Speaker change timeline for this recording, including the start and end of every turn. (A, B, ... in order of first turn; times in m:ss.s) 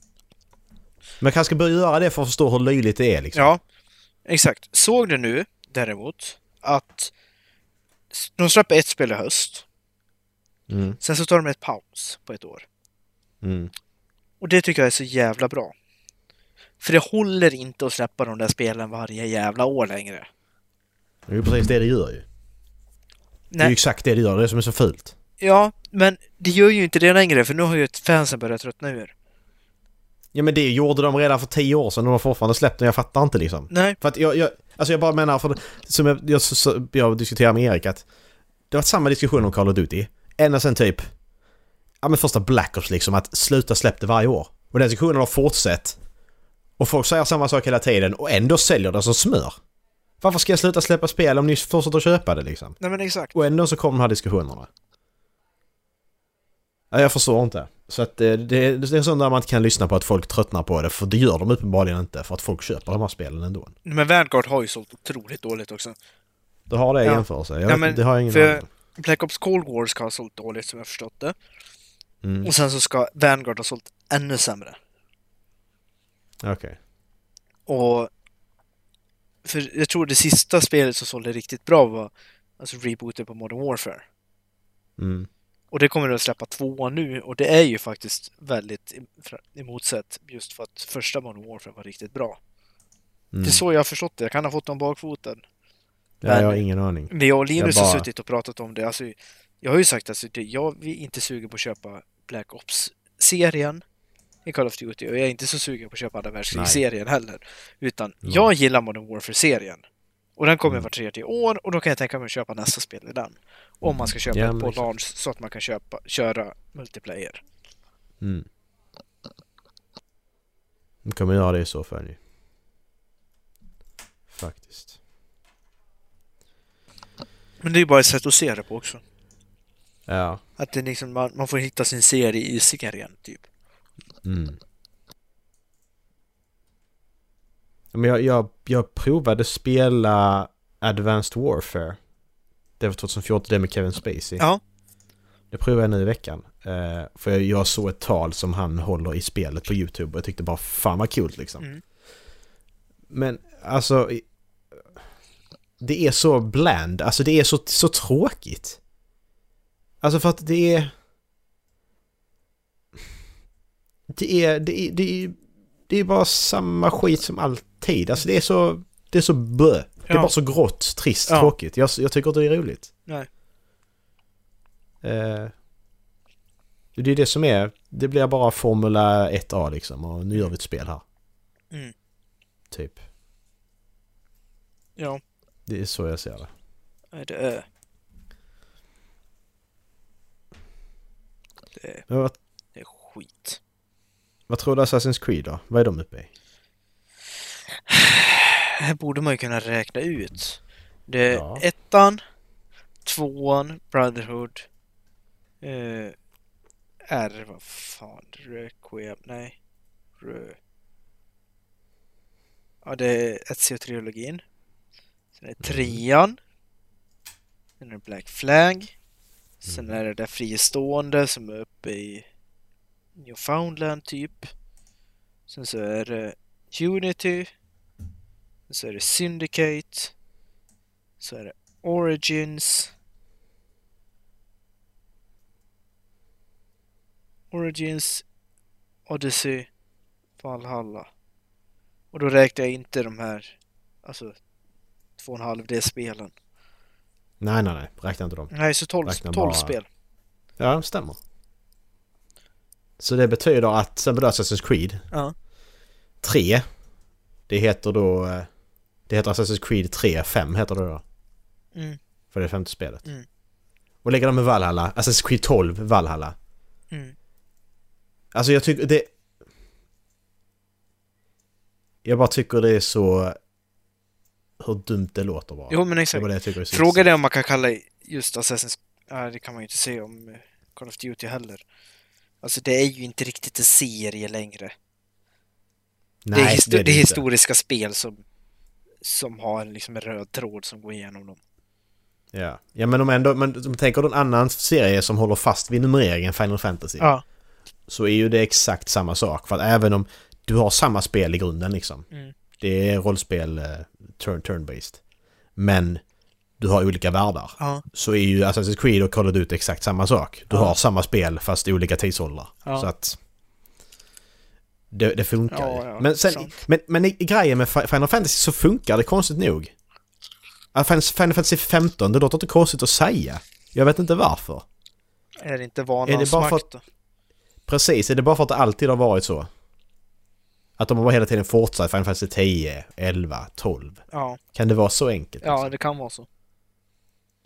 0:01.2-0:03.5 A
0:03.3-0:03.6 B
0:04.2-0:07.1 B
0:08.1-0:09.6 B
0:10.7-0:11.0 A
0:11.0-0:12.6 B
0:13.4-0:13.7 A
0:14.4-0:15.7 B
0:16.8-0:20.3 B
0:21.3-0:22.2 A
0:23.6-0:25.1 A
0:25.4-0:29.1 B
0:30.3-0:38.0 A
0:33.7-0:34.0 B
0:38.7-0:41.0 A
0:42.0-0:46.0 A
0:46.8-0:49.6 A
0:50.2-0:52.8 A
0:52.8-0:53.3 B
0:53.3-0:54.7 A
0:56.9-1:03.7 A
1:03.8-1:05.9 B
1:06.7-1:08.6 A
1:07.0-1:11.3 B
1:12.2-1:12.5 A
1:12.4-1:14.8 B
1:16.4-1:16.8 A
1:17.7-1:18.1 B
1:19.4-1:24.0 B
1:25.0-1:25.3 A
1:25.7-1:32.4 B
1:33.3-1:33.6 A
1:33.4-1:35.4 B
1:36.2-1:38.1 A
1:36.3-1:43.8 B
1:44.4-1:49.8 B
1:46.5-1:46.8 A
1:48.2-1:48.5 A
1:50.4-1:57.4 B
1:53.8-1:54.9 A
1:58.2-1:58.4 A
2:01.0-2:02.2 A
2:04.3-2:05.0 A
2:07.6-2:09.0 B
2:10.1-2:10.4 A
2:10.6-2:13.4 B
2:14.2-2:14.6 A
2:17.9-2:22.0 A
2:22.8-2:24.4 A
2:25.5-2:31.6 A
2:33.1-2:34.2 A
2:35.8-2:38.8 A
2:40.0-2:40.9 A
2:44.1-2:45.4 A
2:45.9-2:52.9 A
2:51.3-2:51.5 B
2:55.0-2:55.5 A
2:56.9-3:01.0 A
3:02.7-3:03.0 A
3:05.7-3:06.5 A
3:07.1-3:07.6 B
3:12.1-3:12.4 A
3:12.8-3:13.6 B
3:14.5-3:16.3 A
3:17.9-3:22.2 B
3:21.3-3:21.6 A
3:23.0-3:24.6 B
3:25.6-3:26.1 B
3:27.1-3:29.6 B
3:30.2-3:30.6 B
3:32.8-3:34.4 B
3:35.4-3:36.4 B
3:35.6-3:36.0 A
3:37.8-3:38.9 B
3:39.6-3:42.2 B
3:39.6-3:40.0 A
3:43.2-3:44.5 B
3:45.5-3:47.5 B
3:48.7-3:50.1 B
3:51.2-3:52.9 B
3:57.5-3:58.2 B
3:59.1-3:59.7 B
4:00.4-4:01.1 B
4:02.1-4:03.5 B
4:04.0-4:04.3 B
4:05.2-4:06.3 B
4:07.4-4:08.5 A
4:08.5-4:09.8 B
4:09.0-4:09.8 A
4:10.6-4:11.2 A
4:13.0-4:15.0 A
4:16.2-4:16.6 A
4:17.5-4:18.5 A
4:19.1-4:21.0 A
4:22.3-4:23.0 A
4:24.0-4:26.3 A
4:28.3-4:29.1 A
4:32.0-4:33.4 A
4:34.6-4:37.0 A
4:35.7-4:41.6 B
4:42.4-4:44.7 B
4:46.2-4:47.2 A
4:46.3-4:48.2 B
4:49.0-4:51.4 B
4:52.3-4:57.1 A
4:57.9-5:02.0 A
5:02.6-5:05.0 A
5:05.6-5:06.0 A
5:06.6-5:13.2 A
5:07.6-5:07.8 B
5:12.6-5:12.9 B
5:14.9-5:19.7 A
5:15.5-5:16.5 B
5:20.7-5:24.6 A
5:25.4-5:26.8 B
5:26.0-5:26.6 A
5:27.7-5:29.5 A
5:30.8-5:34.0 A
5:34.1-5:34.4 B
5:34.5-5:35.7 A
5:35.4-5:36.3 B